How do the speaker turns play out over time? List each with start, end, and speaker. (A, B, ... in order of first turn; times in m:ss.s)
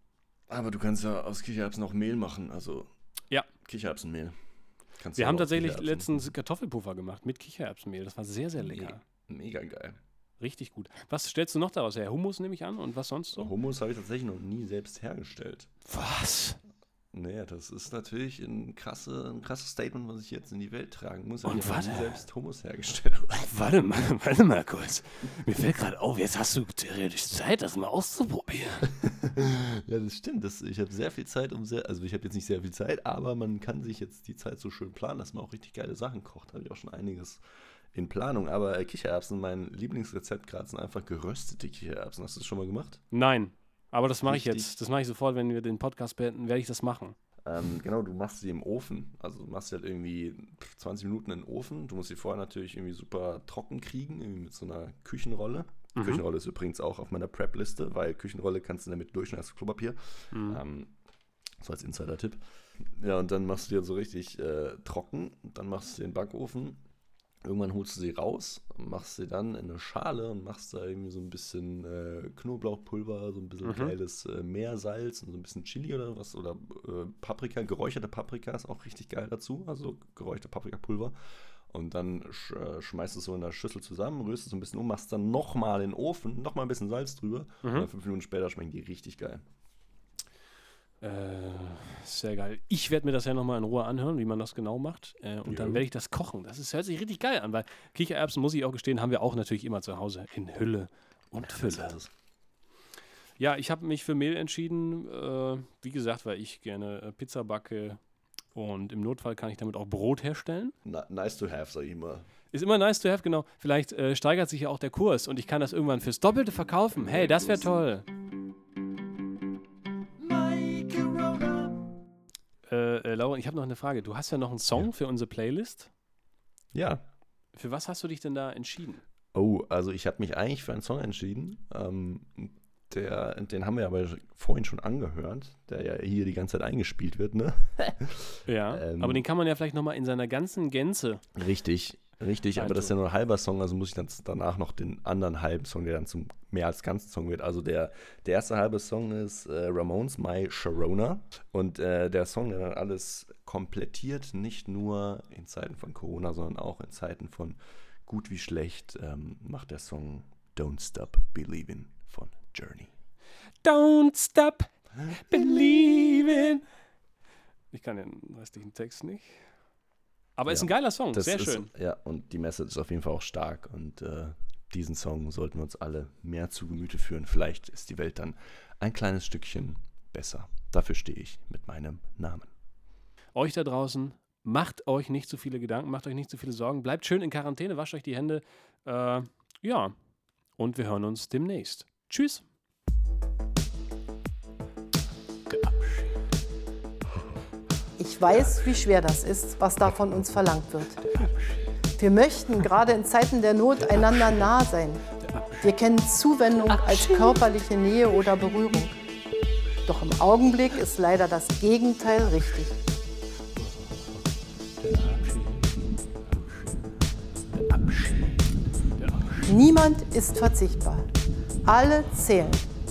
0:00.5-0:02.9 A
0:03.6-0:04.4 A
0:05.0-0:06.3 A
0:05.2-0:09.0 B
0:08.6-0:10.0 A
0:10.4-0:13.5 B
0:13.4-0:15.7 A
0:15.9-0:16.6 B
0:17.1-0:23.5 A
0:21.4-0:22.2 B
0:23.5-0:28.9 B
0:28.9-0:37.4 A
0:37.9-0:43.0 A
0:43.1-0:47.2 B
0:44.2-0:44.7 A
0:47.4-1:01.0 A
0:56.0-0:56.2 B
1:00.3-1:00.6 B
1:01.6-1:06.8 A
1:07.4-1:21.1 A
1:13.6-1:14.0 B
1:21.7-1:29.4 A
1:27.6-1:27.9 B
1:31.0-1:42.0 B
1:35.4-1:35.8 A
1:41.4-1:42.1 A
1:43.4-1:48.0 B
1:48.6-1:50.7 B
1:50.8-1:52.3 A
1:52.5-1:58.1 B
1:56.9-1:57.8 A
2:02.7-2:05.9 B
2:06.7-2:07.0 A
2:07.5-2:09.0 B
2:09.3-2:19.2 A
2:18.5-2:21.2 B
2:21.4-2:42.9 A
2:22.6-2:22.9 B
2:43.6-2:46.6 B
2:45.0-2:45.4 A
2:47.7-2:49.4 B
2:50.4-2:51.7 B
2:50.5-3:02.5 A
3:03.4-3:09.9 B
3:10.6-3:12.4 B
3:18.0-3:21.0 C
3:22.0-3:29.0 C
3:29.9-3:32.7 C
3:39.5-3:41.1 C
3:41.6-3:42.7 C